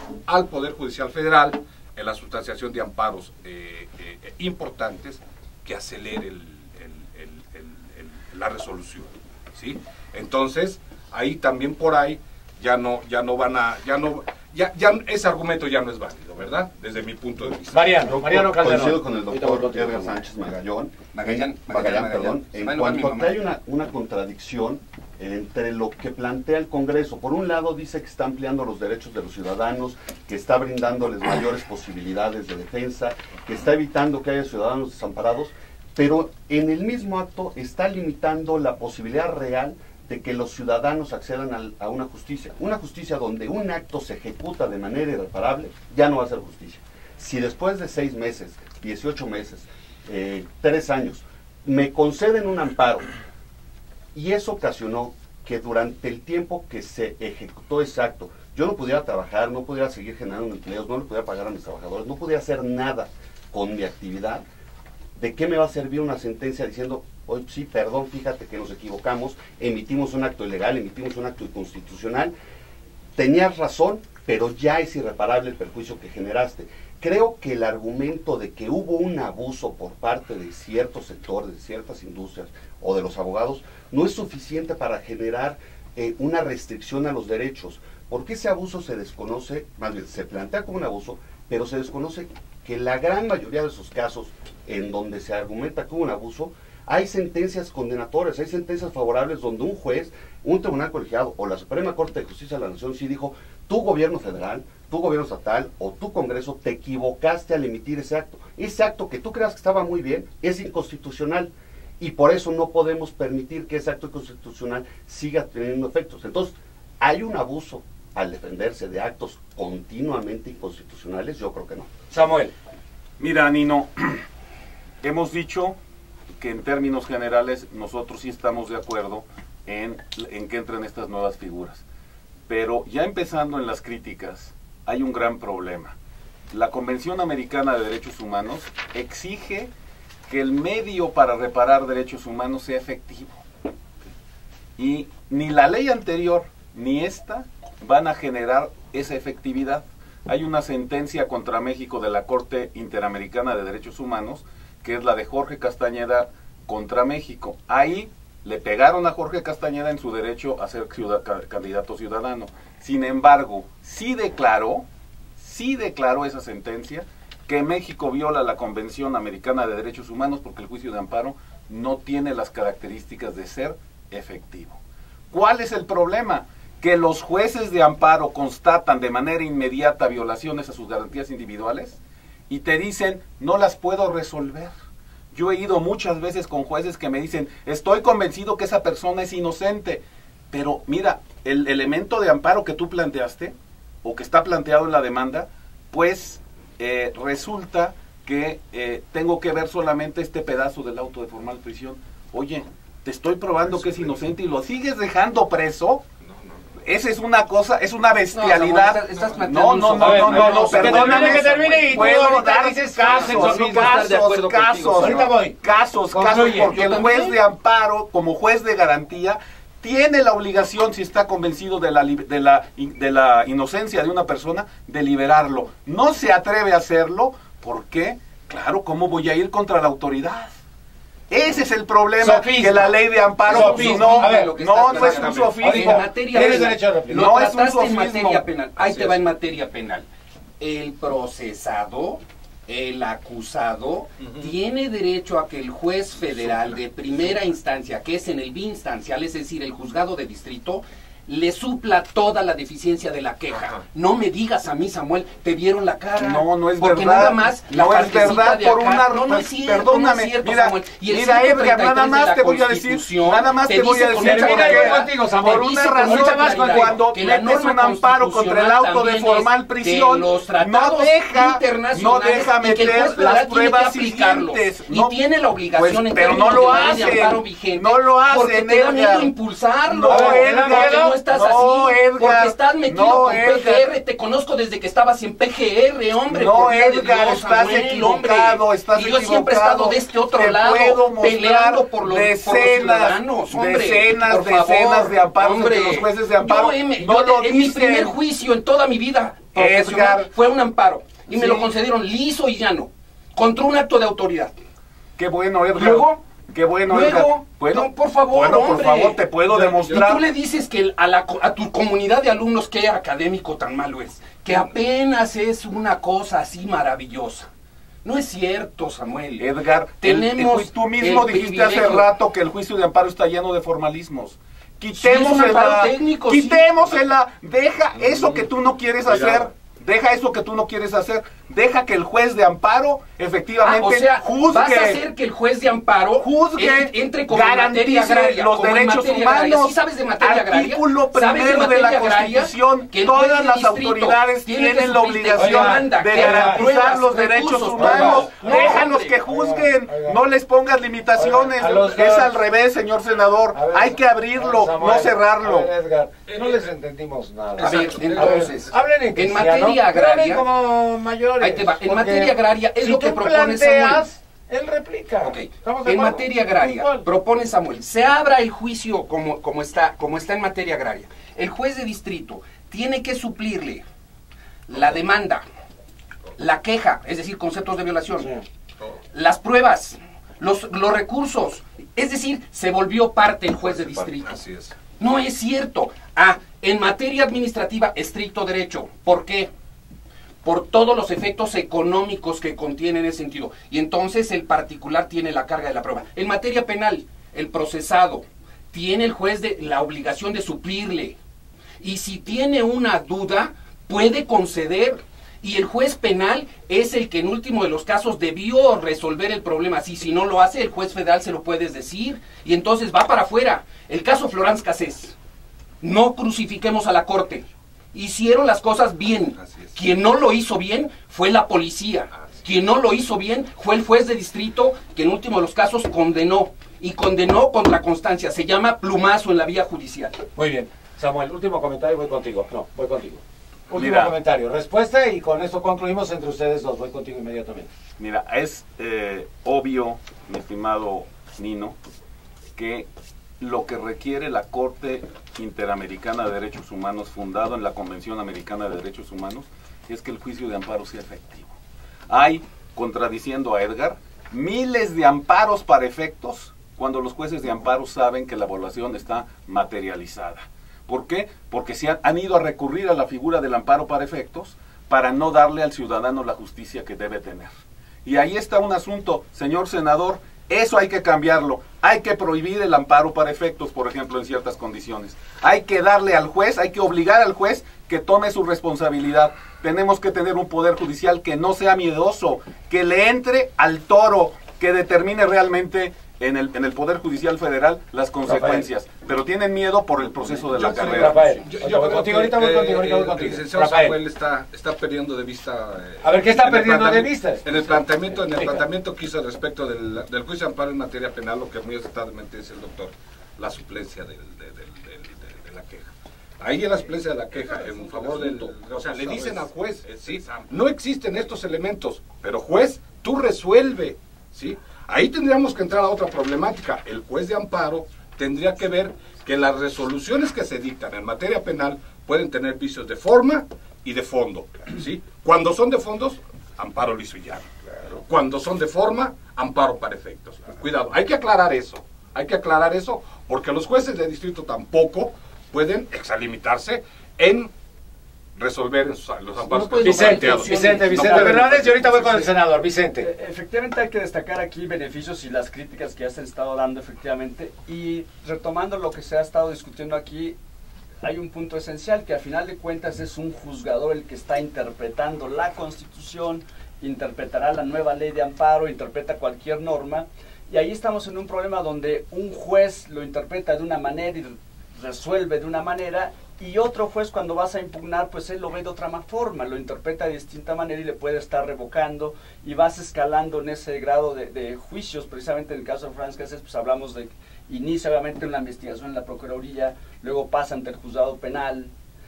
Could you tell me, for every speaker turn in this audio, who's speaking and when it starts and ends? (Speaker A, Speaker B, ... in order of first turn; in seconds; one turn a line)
Speaker A: 0.3-18.1
Speaker B: 17.7-20.2
Speaker C: 18.1-53.1
Speaker D: 21.1-23.4
Speaker C: 54.1-64.4
Speaker C: 65.2-72.3
Speaker C: 73.2-121.9
Speaker B: 122.1-122.5
Speaker E: 123.2-124.2
Speaker E: 125.0-125.8
Speaker E: 126.4-131.8
Speaker E: 132.5-135.9
Speaker E: 136.5-139.7
Speaker E: 140.3-143.4
Speaker E: 144.8-164.8
Speaker E: 165.4-174.8
Speaker E: 175.3-184.7
Speaker E: 185.3-206.0
Speaker A: 203.7-204.2
Speaker A: 206.3-206.6
Speaker E: 206.8-230.5
Speaker D: 208.3-215.3
Speaker A: 209.1-209.4
Speaker B: 209.9-214.1
Speaker B: 214.9-215.6
Speaker B: 216.1-217.0
Speaker D: 216.3-217.4
Speaker E: 231.3-238.4
Speaker B: 232.2-234.6
Speaker D: 233.4-240.1
Speaker A: 234.8-235.7
Speaker B: 235.6-237.3
Speaker A: 238.8-239.2
Speaker D: 240.6-304.5
Speaker A: 244.2-244.5
Speaker A: 246.2-247.3
Speaker E: 256.2-275.1
Speaker B: 264.1-267.0
Speaker E: 275.7-279.3
Speaker E: 279.9-283.9
Speaker B: 280.1-281.2
Speaker E: 286.3-298.1
Speaker E: 299.5-300.3
Speaker E: 301.3-301.7
Speaker E: 305.2-310.2
Speaker D: 305.7-306.2
Speaker D: 306.9-317.5
Speaker A: 309.5-310.0
Speaker D: 318.0-319.5
Speaker E: 319.4-335.0
Speaker D: 320.0-322.1
Speaker D: 325.0-326.9
Speaker A: 327.9-328.5
Speaker A: 329.0-329.5
Speaker D: 333.6-348.9
Speaker E: 336.2-355.7
Speaker B: 345.3-346.7
Speaker B: 347.8-350.2
Speaker B: 351.1-352.4
Speaker B: 353.5-367.1
Speaker A: 356.2-356.7
Speaker A: 357.6-358.5
Speaker D: 357.6-360.4
Speaker D: 361.4-364.1
Speaker D: 365.2-373.8
Speaker D: 374.7-375.4
Speaker D: 376.4-378.4
Speaker D: 379.1-384.4
Speaker A: 383.6-384.8
Speaker D: 385.0-389.5
Speaker D: 390.4-401.2
Speaker D: 401.8-415.1
Speaker D: 415.8-430.2
Speaker A: 419.4-419.7
Speaker B: 430.4-437.7
Speaker E: 433.7-434.1
Speaker E: 438.0-441.8
Speaker E: 442.6-442.9
Speaker E: 443.4-451.5
Speaker E: 452.1-467.5
Speaker E: 468.0-491.2
Speaker B: 488.2-488.7
Speaker A: 490.5-537.5
Speaker D: 490.5-491.7
Speaker B: 490.9-494.0
Speaker B: 496.0-498.6
Speaker D: 507.6-508.5
Speaker A: 538.3-542.3
Speaker B: 539.5-543.1
Speaker D: 539.8-540.7
Speaker F: 540.0-541.8
Speaker F: 543.0-550.4
Speaker F: 551.0-581.7